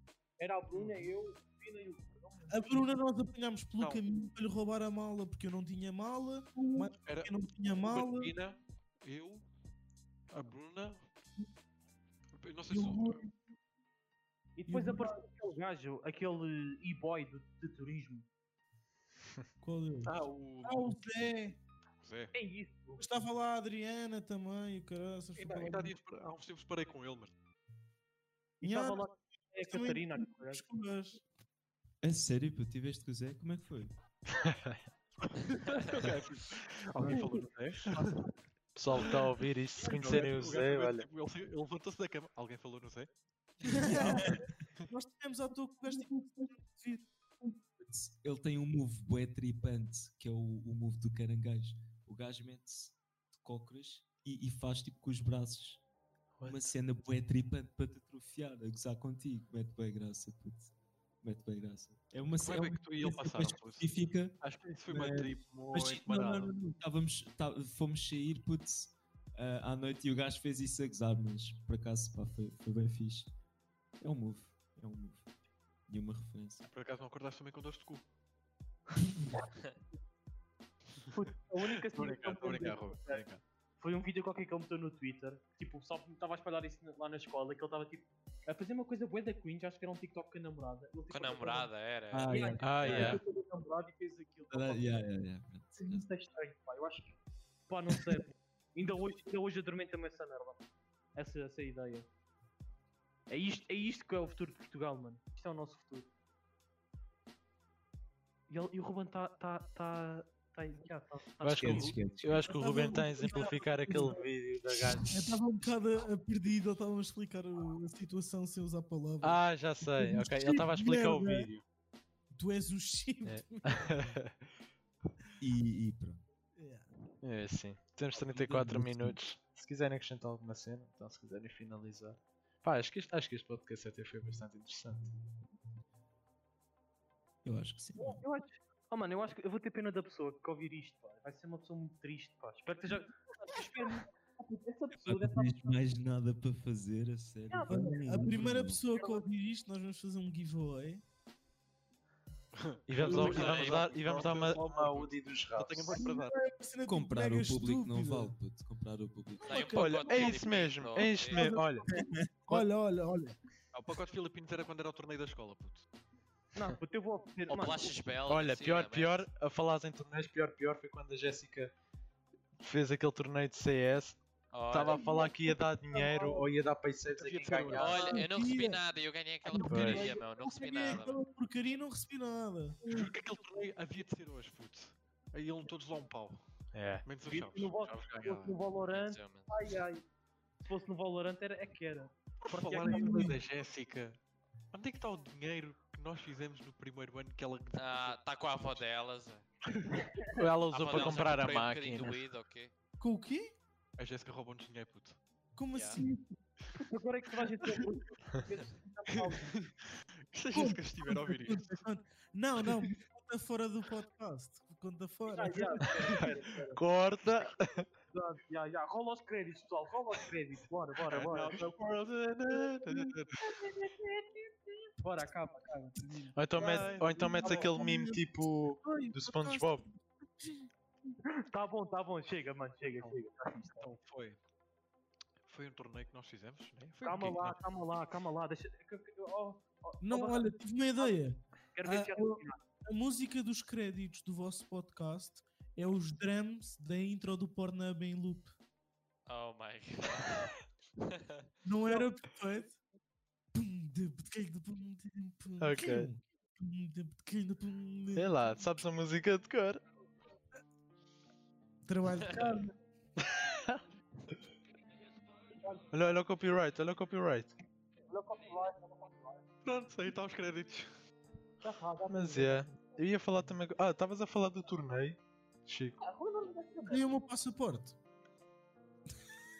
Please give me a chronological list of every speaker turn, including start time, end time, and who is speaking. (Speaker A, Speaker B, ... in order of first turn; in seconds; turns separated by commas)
Speaker A: 0.4-2.9, Speaker B: 0.7-1.1, Speaker C: 2.5-8.3, Speaker B: 3.8-4.0, Speaker A: 6.6-6.9, Speaker B: 7.0-9.4, Speaker B: 10.3-11.1, Speaker B: 12.4-13.2, Speaker C: 12.7-13.3, Speaker A: 14.6-18.2, Speaker C: 14.7-15.2, Speaker C: 19.6-21.6, Speaker B: 20.0-21.0, Speaker B: 22.0-22.3, Speaker A: 22.3-23.0, Speaker C: 23.0-26.0, Speaker B: 25.4-27.3, Speaker A: 28.6-30.6, Speaker C: 28.6-31.2, Speaker D: 32.0-33.9, Speaker E: 34.3-34.8, Speaker B: 35.3-38.2, Speaker E: 38.7-41.1, Speaker B: 39.8-43.1, Speaker C: 43.6-47.5, Speaker D: 43.8-44.5, Speaker D: 47.8-55.8, Speaker E: 56.4-56.7, Speaker D: 56.4-73.3, Speaker B: 62.4-63.9, Speaker B: 64.4-66.5, Speaker D: 74.0-75.2, Speaker D: 75.9-76.7, Speaker B: 76.7-78.0, Speaker A: 81.1-83.2, Speaker B: 81.9-83.4, Speaker A: 83.8-91.7, Speaker F: 91.1-92.4, Speaker D: 92.1-93.2, Speaker A: 92.3-95.0, Speaker E: 92.6-93.2, Speaker D: 94.5-96.1, Speaker A: 95.7-97.2, Speaker A: 97.7-100.6, Speaker A: 101.1-102.1, Speaker A: 103.3-106.1, Speaker A: 108.5-112.0, Speaker E: 111.4-115.4, Speaker D: 111.6-112.5, Speaker C: 112.4-121.5, Speaker E: 119.2-121.6, Speaker C: 122.3-124.1, Speaker E: 123.2-124.3, Speaker D: 125.4-126.2, Speaker C: 126.6-126.9, Speaker E: 127.2-135.1, Speaker D: 128.3-129.2, Speaker D: 137.4-138.2, Speaker A: 138.0-145.8, Speaker D: 144.9-148.8, Speaker A: 147.5-149.2, Speaker C: 147.7-151.0, Speaker B: 152.5-156.4, Speaker E: 152.9-156.0, Speaker C: 153.0-153.7, Speaker F: 153.1-153.8, Speaker C: 155.9-158.3, Speaker D: 156.8-159.8, Speaker C: 159.4-163.4, Speaker F: 159.4-161.6, Speaker E: 159.6-161.8, Speaker B: 163.7-165.8, Speaker A: 166.5-168.1, Speaker F: 167.5-169.3, Speaker E: 168.3-171.7, Speaker E: 172.6-178.2, Speaker F: 174.5-175.2, Speaker C: 174.8-176.4, Speaker B: 177.1-178.2, Speaker F: 177.7-181.2, Speaker C: 178.1-178.8, Speaker C: 179.4-182.8, Speaker E: 179.5-180.2, Speaker A: 182.8-183.1, Speaker B: 182.9-188.6, Speaker E: 186.7-187.1, Speaker A: 187.3-190.0, Speaker F: 188.8-189.7, Speaker A: 190.6-193.3, Speaker B: 192.4-194.2, Speaker C: 192.9-193.3, Speaker B: 194.7-198.8, Speaker F: 197.7-199.4, Speaker E: 200.3-202.2, Speaker F: 200.7-202.7, Speaker C: 203.0-203.5, Speaker B: 204.0-205.2, Speaker C: 205.5-206.4, Speaker F: 205.7-206.0, Speaker A: 206.8-209.5, Speaker B: 209.1-211.8, Speaker C: 210.5-216.0, Speaker A: 215.3-216.8, Speaker E: 216.8-217.9, Speaker A: 218.1-221.6, Speaker B: 221.1-223.4, Speaker A: 222.5-227.8, Speaker E: 226.3-229.8, Speaker B: 226.5-227.5, Speaker C: 226.6-228.2, Speaker C: 228.8-230.7, Speaker A: 231.5-233.9, Speaker B: 233.8-234.4, Speaker B: 235.4-237.6, Speaker A: 237.0-241.2, Speaker C: 240.0-248.5, Speaker A: 241.7-242.6, Speaker F: 249.2-251.4, Speaker C: 251.6-252.8, Speaker C: 253.5-258.6, Speaker E: 255.6-256.1, Speaker E: 258.1-259.8, Speaker C: 261.8-262.7, Speaker E: 263.2-263.8, Speaker A: 265.6-265.9, Speaker E: 265.9-267.5, Speaker A: 268.1-269.4, Speaker B: 269.6-270.9, Speaker A: 271.6-272.7, Speaker E: 272.1-276.0, Speaker A: 276.0-277.1, Speaker C: 276.9-277.9